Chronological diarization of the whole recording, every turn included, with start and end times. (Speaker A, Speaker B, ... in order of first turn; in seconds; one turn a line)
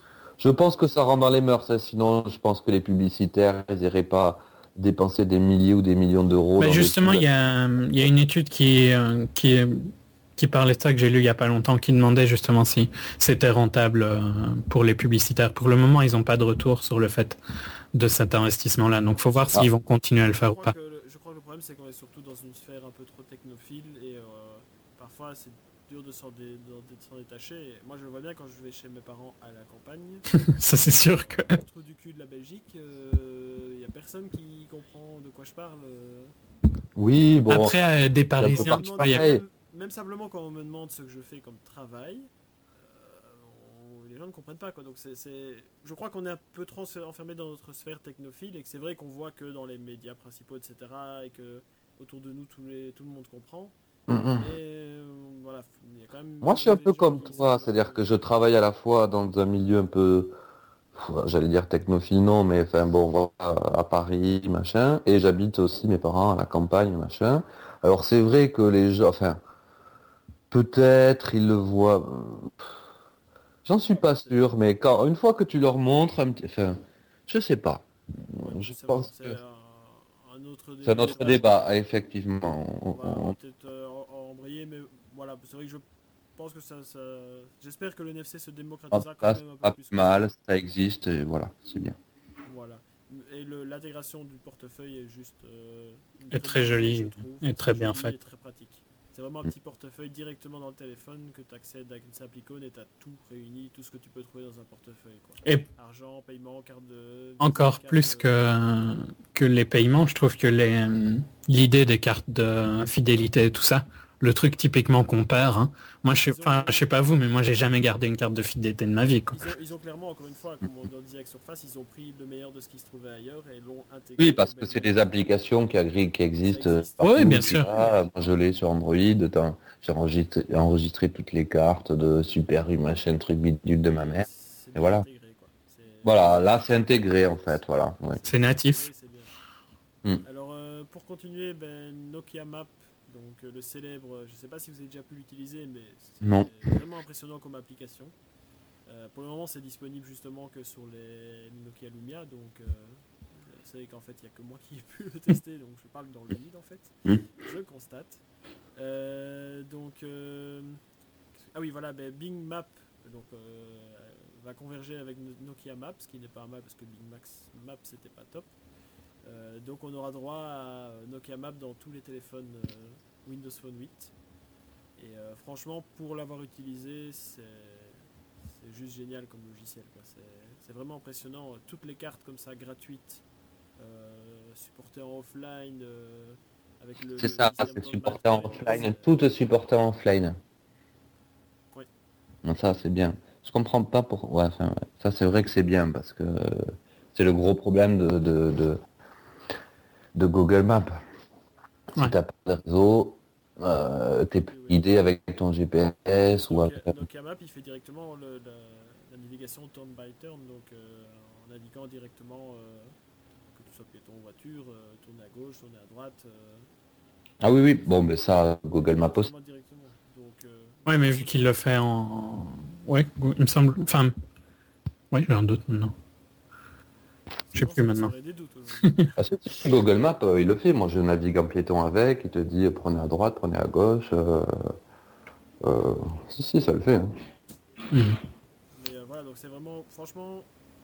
Speaker A: 0.4-7.2
Speaker B: 6.6-17.4
Speaker B: 17.9-20.7
Speaker C: 19.2-19.6
Speaker C: 20.4-30.2
Speaker B: 30.5-31.6
Speaker C: 30.9-36.3
Speaker A: 37.0-37.7
Speaker B: 37.5-39.2
Speaker A: 38.4-39.4
Speaker C: 38.5-53.7
Speaker A: 54.1-54.5
Speaker C: 54.4-58.0
Speaker A: 56.4-60.3
Speaker A: 60.9-69.4
Speaker A: 70.5-72.5
Speaker A: 73.6-79.3
Speaker C: 73.9-74.4
Speaker C: 78.3-81.6
Speaker A: 80.8-83.3
Speaker C: 82.9-85.8
Speaker C: 86.4-90.3
Speaker A: 88.9-92.0
Speaker C: 92.4-108.4
Speaker B: 96.3-98.1
Speaker B: 107.4-119.4
Speaker C: 116.1-116.9
Speaker C: 119.3-124.9
Speaker A: 124.2-135.0
Speaker C: 126.4-127.9
Speaker B: 127.0-127.7
Speaker C: 133.9-139.3
Speaker A: 136.0-138.2
Speaker B: 138.3-138.8
Speaker C: 140.2-148.1
Speaker A: 146.2-146.5
Speaker C: 148.9-158.2
Speaker C: 158.8-160.8
Speaker C: 161.4-168.5
Speaker C: 169.2-174.1
Speaker C: 175.0-183.2
Speaker C: 183.8-189.3
Speaker A: 187.2-190.4
Speaker A: 192.4-198.8
Speaker A: 200.1-201.0
Speaker A: 201.9-207.0
Speaker C: 204.5-204.8
Speaker C: 206.4-212.9
Speaker C: 213.5-216.7
Speaker A: 217.4-219.3
Speaker C: 218.8-221.3
Speaker B: 220.8-224.1
Speaker B: 225.1-225.9
Speaker C: 227.5-229.5
Speaker B: 227.5-228.1
Speaker A: 229.2-234.7
Speaker A: 235.6-237.1
Speaker B: 237.9-238.2
Speaker C: 238.7-240.5